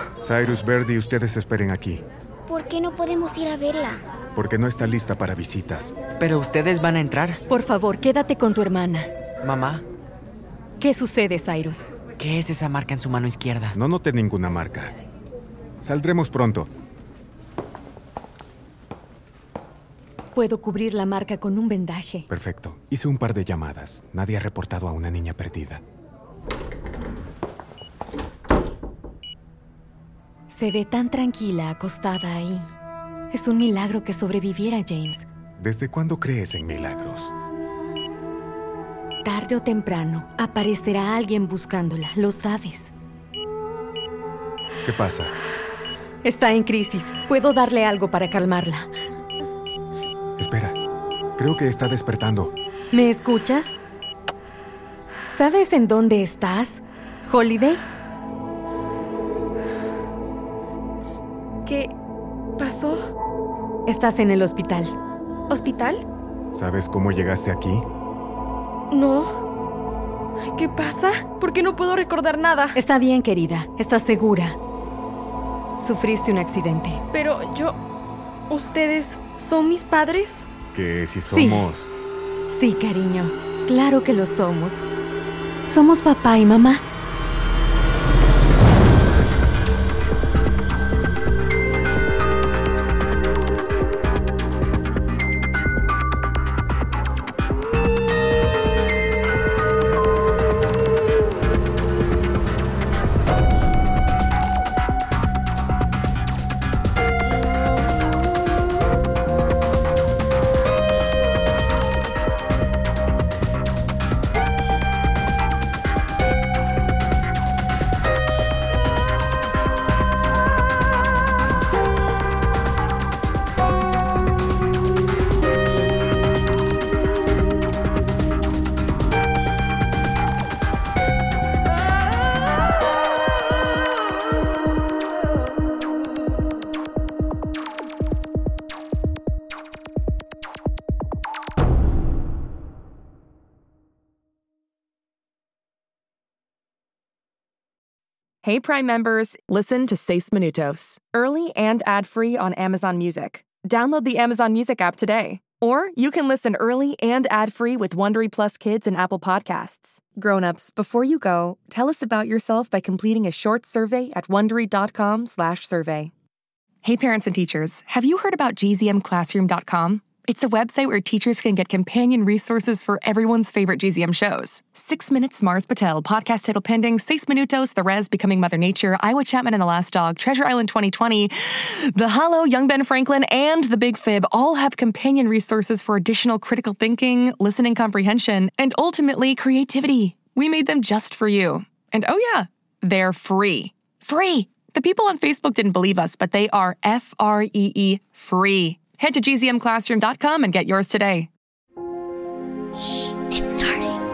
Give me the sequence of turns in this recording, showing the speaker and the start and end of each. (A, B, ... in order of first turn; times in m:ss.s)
0:00.2-0:02.0 A
0:02.5-0:04.0 B
0:04.3-0:06.0 A
0:06.2-0:07.4 C
0:07.5-0:09.1 D
0:09.4-0:09.8 C
0:10.8-0:11.8 D
0:12.2-0:13.8 C
0:13.7-0:14.9 A
0:15.8-0:16.7 A
0:20.3-0:22.3 D
0:22.3-0:25.8 A
0:30.5-0:32.7 D
0:33.3-0:35.3 D
0:35.6-0:37.3 A
0:39.2-0:42.9 D
0:44.8-0:45.3 A
0:46.2-0:48.9 D
0:50.4-0:50.8 A
0:51.4-0:52.5 A
0:52.9-0:53.8 D
0:55.3-0:57.8 D
1:01.6-1:01.9 E
1:02.6-1:03.1 E
1:03.9-1:04.9 D
1:05.5-1:06.0 E
1:06.5-1:07.8 A
1:08.9-1:09.3 E
1:10.5-1:12.8 E
1:12.7-1:14.6 D
1:15.8-1:17.0 D
1:17.1-1:17.8 E
1:18.5-1:20.5 E
1:20.7-1:21.9 A
1:21.3-1:21.7 D
1:22.5-1:24.8 D
1:25.6-1:26.8 D
2:28.4-2:46.1 F
2:46.8-3:21.3 F
3:23.0-3:24.0 B